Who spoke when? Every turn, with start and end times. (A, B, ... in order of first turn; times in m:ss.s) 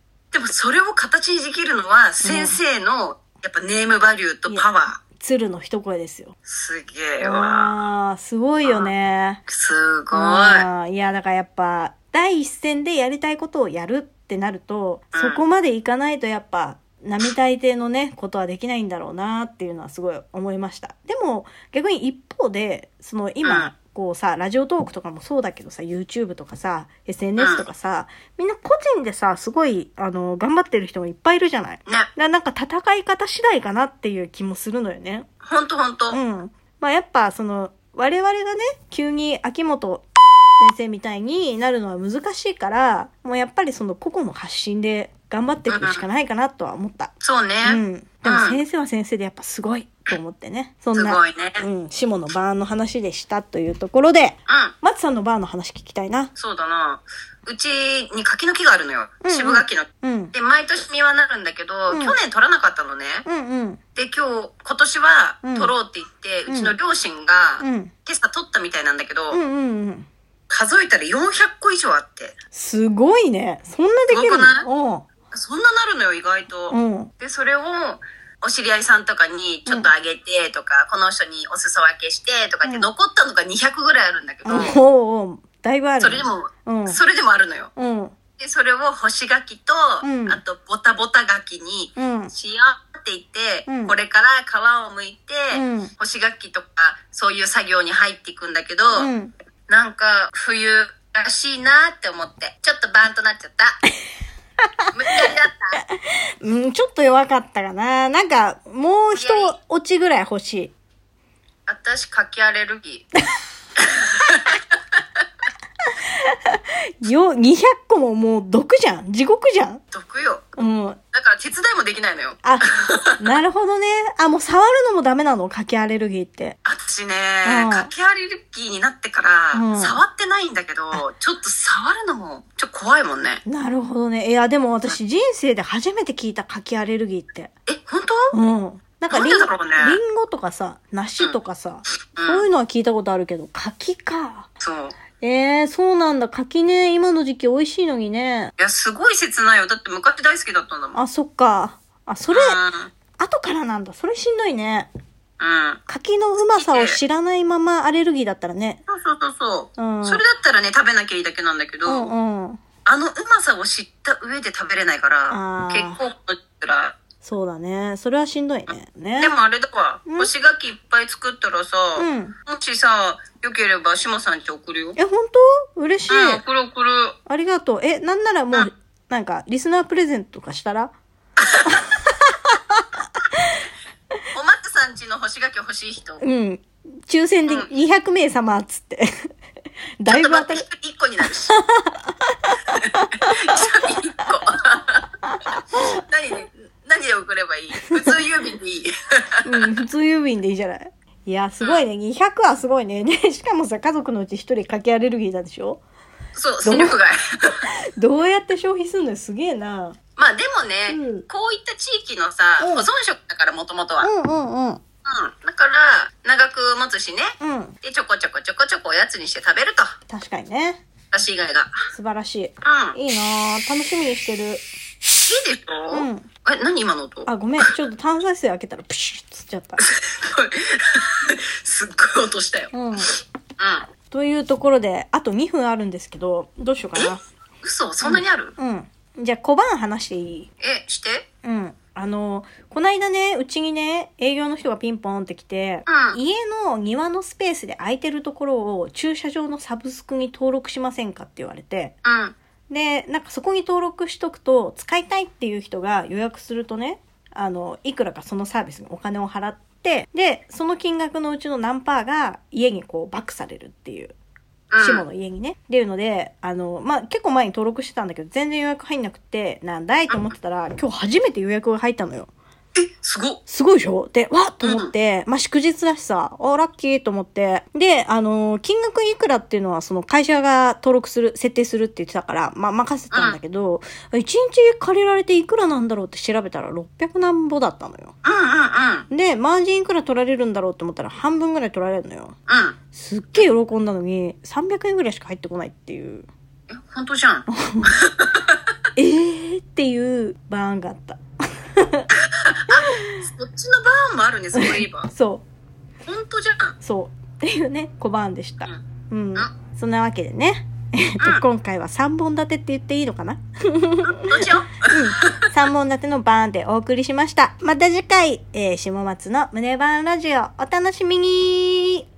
0:00.3-0:05.0 A
0:02.2-0:02.6 B
0:05.2-0:06.4 B
0:06.5-0:07.7 A
0:07.2-0:09.4 B
0:08.6-0:08.9 A
0:09.5-0:10.7 A
0:10.1-0:35.3 B
0:15.1-0:15.4 A
0:23.4-0:23.7 A
0:27.4-0:27.6 A
0:35.4-0:36.2 A
0:36.1-0:40.1 B
0:40.6-0:56.3 B
0:45.7-0:46.0 A
0:47.2-0:48.6 A
0:51.0-0:51.7 A
0:54.5-0:54.7 A
0:56.4-1:03.2 A
0:59.2-1:00.3 B
1:01.9-1:02.2 B
1:03.3-1:03.8 B
1:04.0-1:09.4 A
1:05.4-1:05.7 B
1:06.5-1:06.8 B
1:07.6-1:07.9 B
1:09.3-1:10.1 B
1:10.5-1:12.4 A
1:12.5-1:15.1 B
1:14.1-1:14.7 A
1:15.3-1:24.8 A
1:16.7-1:17.1 B
1:22.6-1:22.9 B
1:24.5-1:27.0 B
1:26.0-1:27.7 A
1:27.8-1:28.1 B
1:28.4-1:39.1 A
1:30.0-1:30.4 B
1:32.0-1:32.3 B
1:33.7-1:34.0 B
1:35.5-1:35.9 B
1:38.9-1:39.3 B
1:39.7-1:43.8 A
1:44.9-1:45.8 A
1:45.9-1:50.7 B
1:49.2-1:49.6 A
1:51.7-1:53.1 A
1:53.8-1:55.0 A
1:56.1-1:59.8 B
1:59.9-2:00.5 A
2:00.6-2:01.0 B
2:01.1-2:03.2 A
2:02.4-2:06.6 B
2:06.6-2:13.4 A
2:07.4-2:07.9 B
2:09.5-2:10.0 B
2:13.5-2:17.5 B
2:17.7-2:18.3 A
2:18.3-2:24.5 B
2:19.1-2:20.0 A
2:22.2-2:22.4 A
2:24.6-2:25.0 A
2:25.2-2:28.5 B
2:28.6-2:31.0 A
2:30.9-2:32.6 B
2:32.3-2:32.9 A
2:33.2-2:34.9 B
2:35.4-2:35.8 A
2:35.9-2:38.8 B
2:36.5-2:37.0 A
2:38.9-2:42.1 A
2:39.8-2:40.2 B
2:41.9-2:42.6 B
2:42.8-2:47.0 A
2:45.3-2:46.0 B
2:47.2-2:49.3 B
2:49.2-2:55.0 A
2:52.0-2:52.4 B
2:55.0-2:56.4 B
2:56.1-2:57.2 A
2:57.3-3:00.9 B
3:01.7-3:02.8 B
3:04.3-3:06.2 A
3:06.2-3:09.1 B
3:10.0-3:10.7 B
3:10.1-3:11.6 A
3:11.5-3:13.6 B
3:12.8-3:15.0 A
3:15.8-3:19.7 A
3:19.4-3:25.8 B
3:26.4-3:27.6 A
3:26.6-3:27.0 B
3:27.6-3:30.0 B
3:30.2-3:34.1 A
3:30.9-3:31.3 B
3:32.6-3:32.9 B
3:34.0-3:34.8 B
3:35.1-3:40.0 A
3:37.4-3:37.8 B
3:40.1-3:40.8 B
3:41.1-3:41.7 A
3:41.9-3:44.6 B
3:42.6-3:43.0 A
3:45.2-3:47.6 A
3:45.9-3:46.3 B
3:47.3-3:49.9 B
3:49.8-3:53.9 A
3:52.7-3:53.1 B
3:54.1-3:57.2 B
3:57.0-3:58.6 A
3:58.0-4:00.5 B
4:00.6-4:01.3 A
4:01.4-4:12.0 B
4:05.9-4:06.2 A
4:12.0-4:12.4 A
4:12.7-4:24.1 B
4:24.7-4:25.0 A
4:24.8-4:32.3 B
4:32.8-4:33.4 A
4:33.5-4:48.2 B
4:34.6-4:34.9 A
4:43.1-4:43.4 A
4:48.2-4:49.1 A
4:49.1-4:52.4 B
4:52.5-4:52.8 A
4:52.9-4:56.3 B
4:56.7-4:58.6 A
4:57.5-4:57.9 B
4:59.0-5:01.2 B
5:01.8-5:02.1 B
5:02.1-5:05.1 A
5:02.7-5:03.2 B
5:04.5-5:05.4 B
5:06.1-5:06.8 A
5:06.8-5:22.0 B
5:14.0-5:15.5 A